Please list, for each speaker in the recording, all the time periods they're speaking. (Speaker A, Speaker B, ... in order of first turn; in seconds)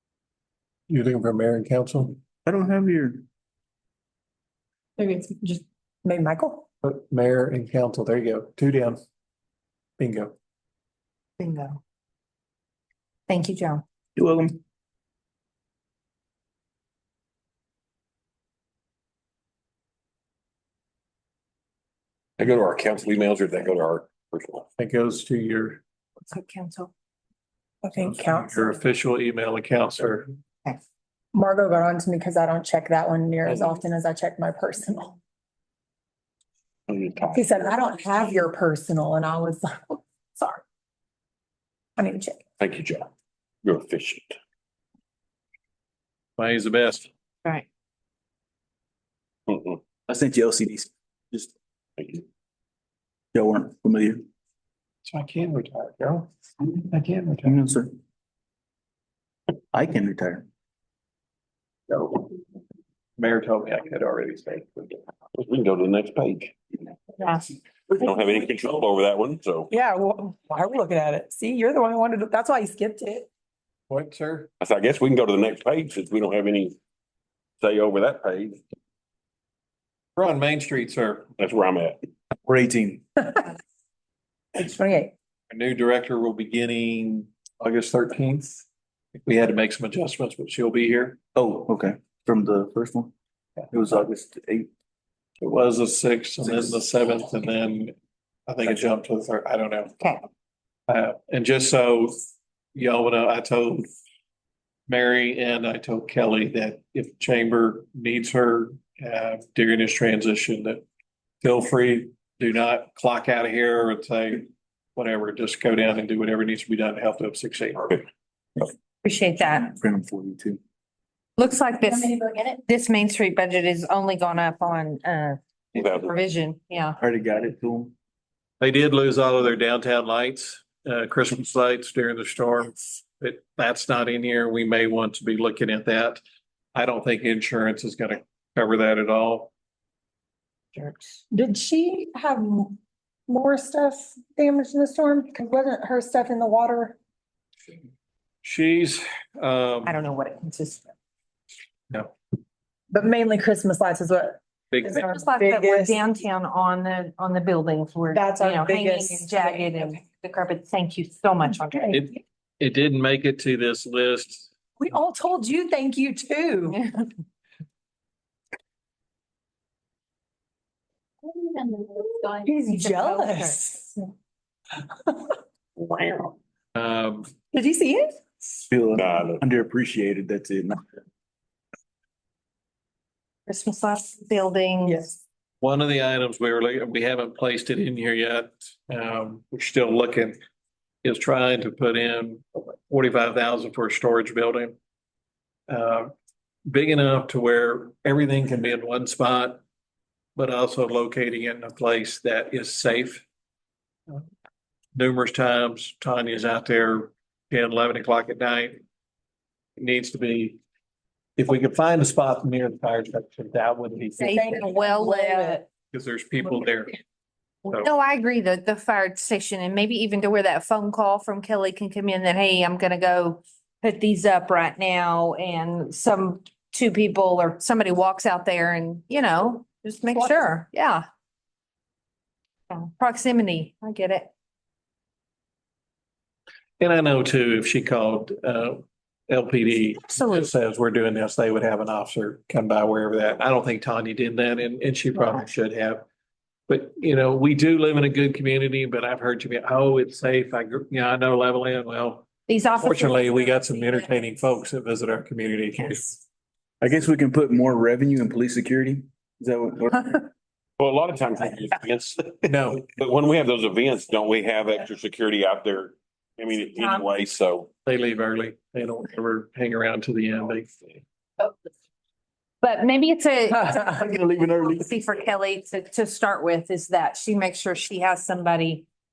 Speaker A: 0.9-2.2, 6.8-9.0, 10.0-10.3, 24.8-25.8, 28.0-30.3, 46.4-47.1, 55.0-57.6, 63.2-65.0, 73.9-74.5, 80.2-81.3, 85.5-91.2, 95.4-97.9, 98.5-100.0, 100.9-102.2, 102.7-103.9, 104.9-110.8, 111.4-118.0, 128.6-136.2, 136.7-139.5, 148.4-149.9, 154.7-155.0, 161.9-164.5, 176.7-177.3, 185.6-190.4, 191.0-194.7, 195.7-196.1, 196.7-199.6, 200.3-203.2, 204.9-208.8, 209.8-210.6, 211.4-214.5, 215.9-216.9, 236.8-246.0, 246.7-252.3, 252.8-256.2, 262.4-262.8, 267.9-271.0
Speaker B: 2.4-3.2, 14.2-14.6, 50.1-51.5, 53.3-54.2, 57.4-57.9, 59.7-60.5, 82.4-83.0, 91.3-93.1, 93.7-94.7, 119.7-120.6, 127.0-127.9, 178.7-180.8, 256.8-260.2, 274.0-274.6
Speaker C: 5.0-6.6, 27.8-28.8, 31.3-35.1, 37.3-40.6, 42.0-42.4, 69.7-73.3, 84.5-85.1, 141.3-142.8, 143.3-146.9, 152.9-156.1, 158.1-160.0, 161.5-162.1, 164.8-166.8, 172.1-174.0, 177.5-178.6, 184.8-185.2, 214.2-215.6, 230.2-230.4
Speaker D: 11.4-11.8, 13.3-13.8, 26.2-26.9, 67.2-67.5, 100.0-100.2, 119.0-119.7, 121.4-127.0, 140.7-141.2, 149.8-150.9, 155.0-162.0, 166.7-167.1, 171.5-172.1, 172.7-173.6, 183.5-185.1, 214.2-215.6, 217.7-231.0, 232.7-234.3, 240.1-240.5, 252.5-254.4, 266.8-267.1, 272.6-278.9
Speaker E: 22.4-24.7, 33.5-33.7, 36.9-37.4, 42.6-43.1, 43.6-44.4, 49.5-49.8, 52.0-52.2, 61.9-62.2, 65.3-66.6, 67.9-69.7, 74.6-76.8, 77.6-78.6, 81.4-82.0, 125.8-126.1, 175.8-176.3, 178.9-179.4, 260.8-267.7